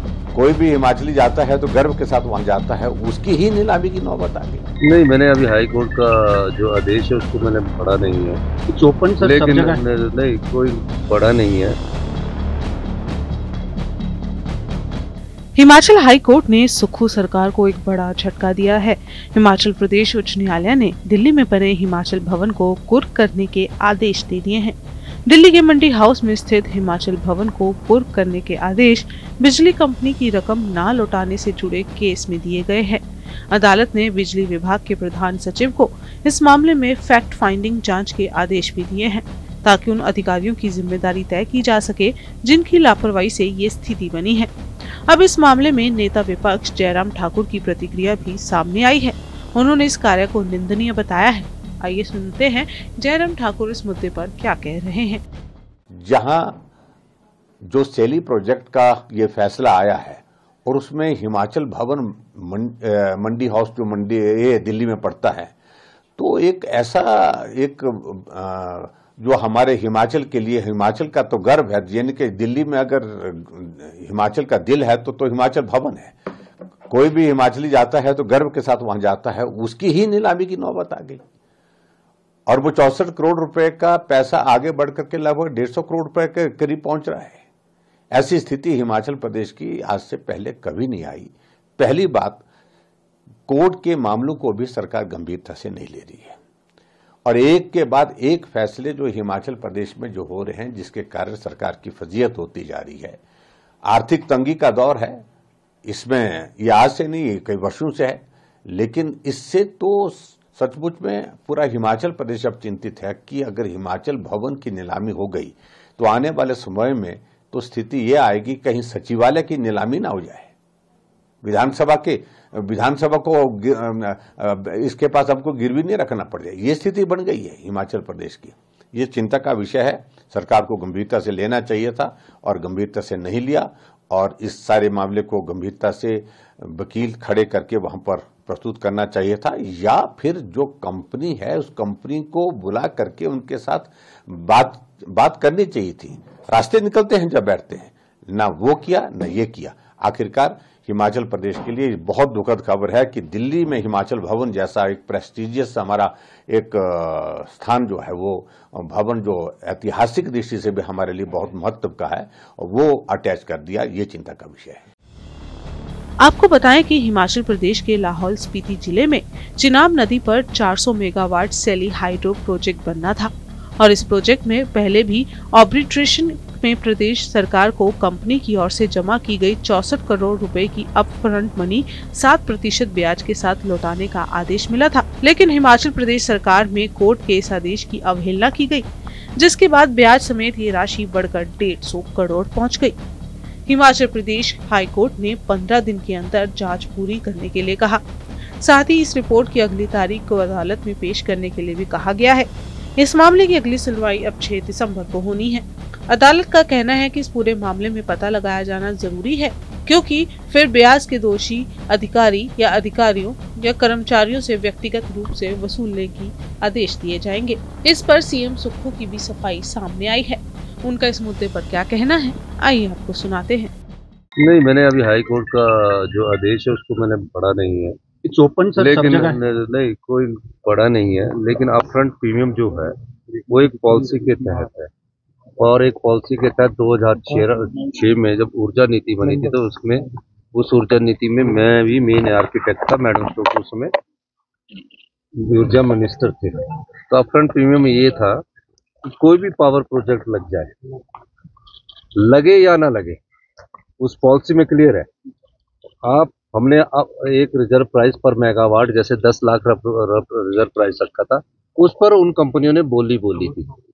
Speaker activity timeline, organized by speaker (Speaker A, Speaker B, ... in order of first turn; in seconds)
Speaker A: 0.3-4.6, 55.9-56.6, 57.7-65.5, 66.2-76.1, 76.9-81.2, 82.5-87.4, 88.1-92.4, 93.5-96.3, 97.2-103.2, 103.9-105.2, 105.8-120.5, 121.4-164.9
Speaker B: 4.8-8.4, 9.2-11.7, 224.4-227.9, 228.8-234.9, 235.6-243.9, 245.4-248.4, 249.1-250.7, 252.2-253.2, 254.0-255.1, 256.0-263.7
Speaker C: 8.7-9.8, 228.2-229.4
Speaker D: 15.6-24.8, 25.3-44.5, 45.1-55.2, 166.2-192.9, 193.7-198.0, 198.6-223.7